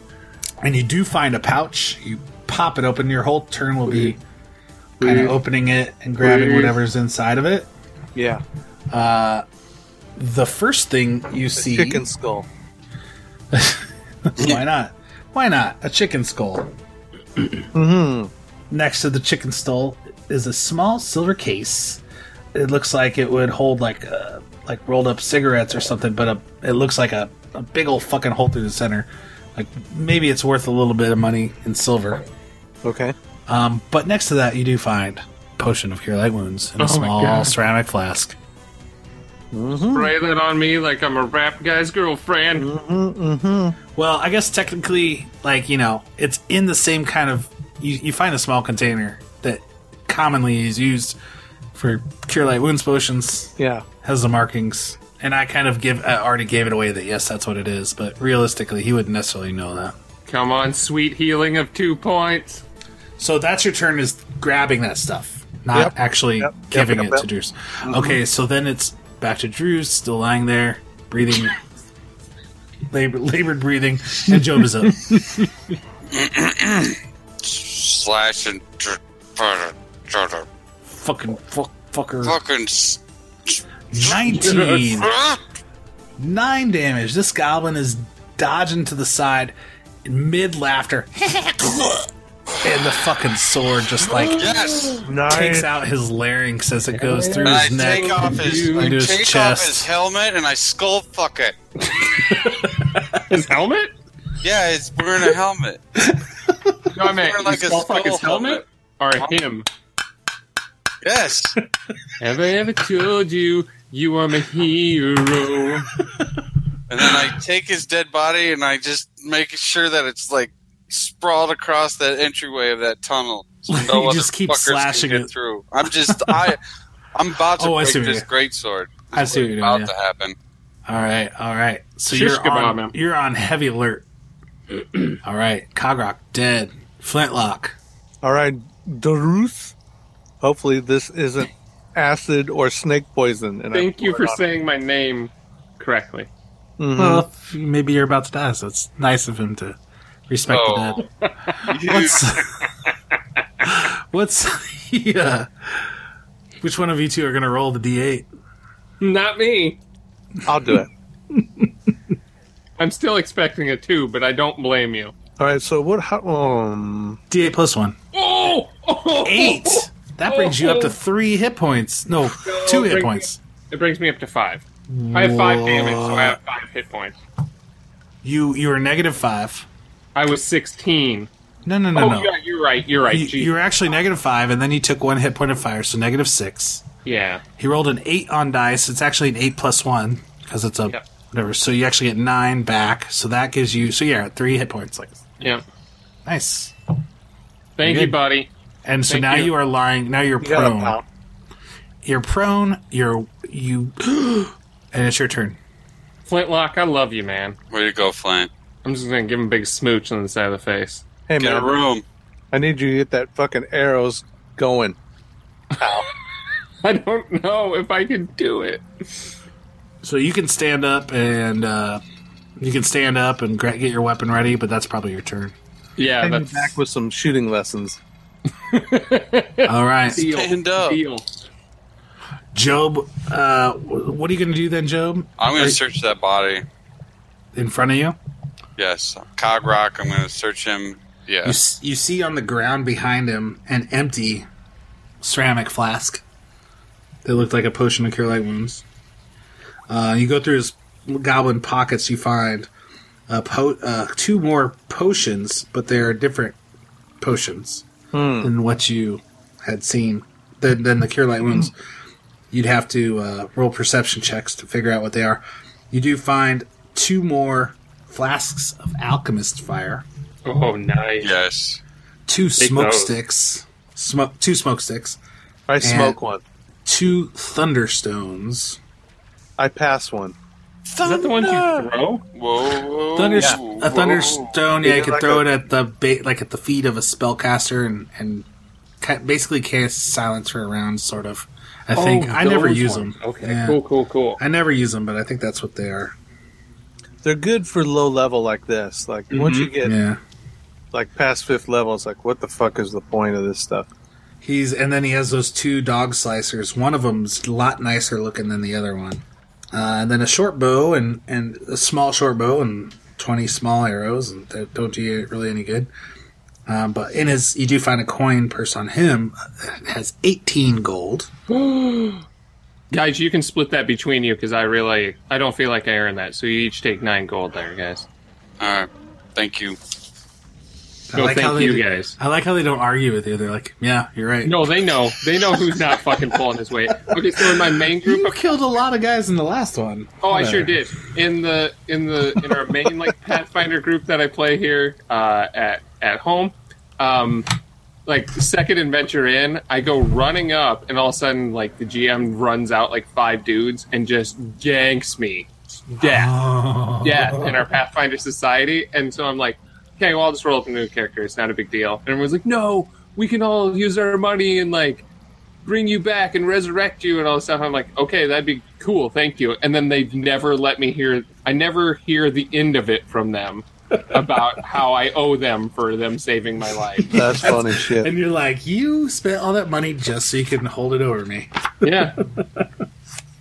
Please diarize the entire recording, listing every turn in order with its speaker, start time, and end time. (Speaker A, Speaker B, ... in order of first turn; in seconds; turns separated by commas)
Speaker A: 0.6-4.2, Speaker B: 5.0-5.3, Speaker A: 5.0-7.7, Speaker B: 6.2-6.7, Speaker B: 8.1-8.4, Speaker A: 8.9-9.4, Speaker A: 10.2-12.0, Speaker B: 11.6-12.5, Speaker A: 13.5-16.7, Speaker A: 17.4-17.6, Speaker B: 17.7-18.3, Speaker A: 18.7-22.0, Speaker A: 22.5-32.2, Speaker B: 32.8-33.1, Speaker A: 33.5-38.4, Speaker C: 36.8-37.5, Speaker B: 39.5-40.1, Speaker C: 39.9-42.7, Speaker B: 42.6-43.8, Speaker A: 43.9-51.2, Speaker A: 51.7-59.9, Speaker B: 53.6-53.9, Speaker C: 60.3-62.6, Speaker A: 63.2-71.6, Speaker B: 65.7-67.2, Speaker B: 67.8-68.2, Speaker A: 72.9-75.5, Speaker D: 76.1-80.5, Speaker A: 80.8-82.4, Speaker D: 82.2-84.2, Speaker A: 83.9-85.1, Speaker C: 84.4-84.8, Speaker D: 84.8-85.4, Speaker A: 86.2-92.0, Speaker A: 92.6-94.5, Speaker C: 94.0-95.0, Speaker D: 94.4-95.0, Speaker B: 95.0-95.7, Speaker A: 95.2-99.9, Speaker C: 96.9-98.9, Speaker D: 97.4-101.5, Speaker A: 102.2-103.1, Speaker C: 102.2-103.9, Speaker D: 104.4-105.8, Speaker A: 106.1-106.7, Speaker C: 106.9-109.7, Speaker D: 107.0-108.6, Speaker D: 111.0-111.6, Speaker C: 112.2-115.9, Speaker D: 116.9-126.6, Speaker A: 123.7-125.3, Speaker A: 125.8-126.5, Speaker D: 127.1-130.3, Speaker A: 127.5-128.3, Speaker A: 129.1-129.9, Speaker A: 130.9-134.0, Speaker C: 132.1-132.9, Speaker A: 135.1-137.8, Speaker B: 138.2-139.7, Speaker B: 140.4-144.4, Speaker C: 143.7-146.3, Speaker B: 146.8-147.2, Speaker A: 146.9-151.0, Speaker D: 150.5-151.0, Speaker C: 151.2-151.5, Speaker A: 151.6-152.5, Speaker D: 151.6-152.4, Speaker A: 153.6-155.9, Speaker A: 156.6-158.3, Speaker C: 159.0-159.8, Speaker B: 160.4-160.9, Speaker A: 161.3-161.7, Speaker C: 162.8-165.1, Speaker B: 165.4-167.2, Speaker A: 167.3-168.0, Speaker C: 168.1-170.9, Speaker A: 169.2-173.4, Speaker C: 172.3-177.2, Speaker A: 174.9-176.4, Speaker A: 178.2-179.7, Speaker C: 180.1-181.3, Speaker A: 181.6-182.3, Speaker C: 181.9-183.5, Speaker A: 183.1-186.8, Speaker C: 187.0-187.4, Speaker A: 187.6-195.3, Speaker A: 196.2-196.7, Speaker C: 197.8-198.5, Speaker A: 197.8-198.2, Speaker A: 198.8-201.0, Speaker C: 199.1-199.5, Speaker B: 200.4-201.0, Speaker A: 202.0-205.6, Speaker C: 206.2-207.6, Speaker D: 207.7-208.5, Speaker C: 208.8-211.0, Speaker B: 211.3-211.7, Speaker D: 211.4-212.0, Speaker B: 212.5-215.0, Speaker B: 215.8-216.1, Speaker C: 216.8-218.8, Speaker A: 220.0-222.0, Speaker A: 222.6-225.5, Speaker C: 226.0-226.7, Speaker B: 226.2-228.0, Speaker C: 228.7-231.2, Speaker A: 229.6-230.3, Speaker D: 230.2-231.0, Speaker A: 232.5-235.8, Speaker D: 235.4-236.6, Speaker A: 237.5-238.2, Speaker D: 238.8-241.6, Speaker A: 241.4-244.4, Speaker A: 245.2-246.2, Speaker A: 247.2-248.8, Speaker A: 249.9-252.7, Speaker A: 253.3-256.6, Speaker A: 257.2-257.9, Speaker B: 258.1-258.5, Speaker A: 258.4-261.7, Speaker A: 262.5-270.0, Speaker C: 270.4-271.3, Speaker D: 271.2-271.8, Speaker A: 272.3-275.2, Speaker C: 272.6-273.1, Speaker B: 275.7-276.4, Speaker A: 275.8-276.2, Speaker A: 276.9-278.8, Speaker B: 279.6-280.4, Speaker C: 281.0-282.2, Speaker D: 282.3-284.6, Speaker A: 283.1-288.4, Speaker B: 284.8-285.4, Speaker A: 289.0-293.8, Speaker C: 291.9-294.4, Speaker A: 294.4-296.1, Speaker B: 297.2-299.9, Speaker A: 299.3-300.2, Speaker B: 300.9-303.9, Speaker A: 304.4-315.9, Speaker A: 316.7-321.3, Speaker C: 321.5-322.2, Speaker C: 322.9-328.1, Speaker D: 328.6-329.8, Speaker A: 331.1-334.7, Speaker C: 331.1-332.1, Speaker C: 334.4-338.4, Speaker A: 335.4-336.1, Speaker A: 337.1-340.8, Speaker C: 340.2-347.5, Speaker C: 348.1-356.3, Speaker A: 356.0-357.6, Speaker C: 357.0-365.1, Speaker C: 365.6-377.1, Speaker A: 377.0-382.7, Speaker B: 377.1-378.1, Speaker C: 381.8-382.2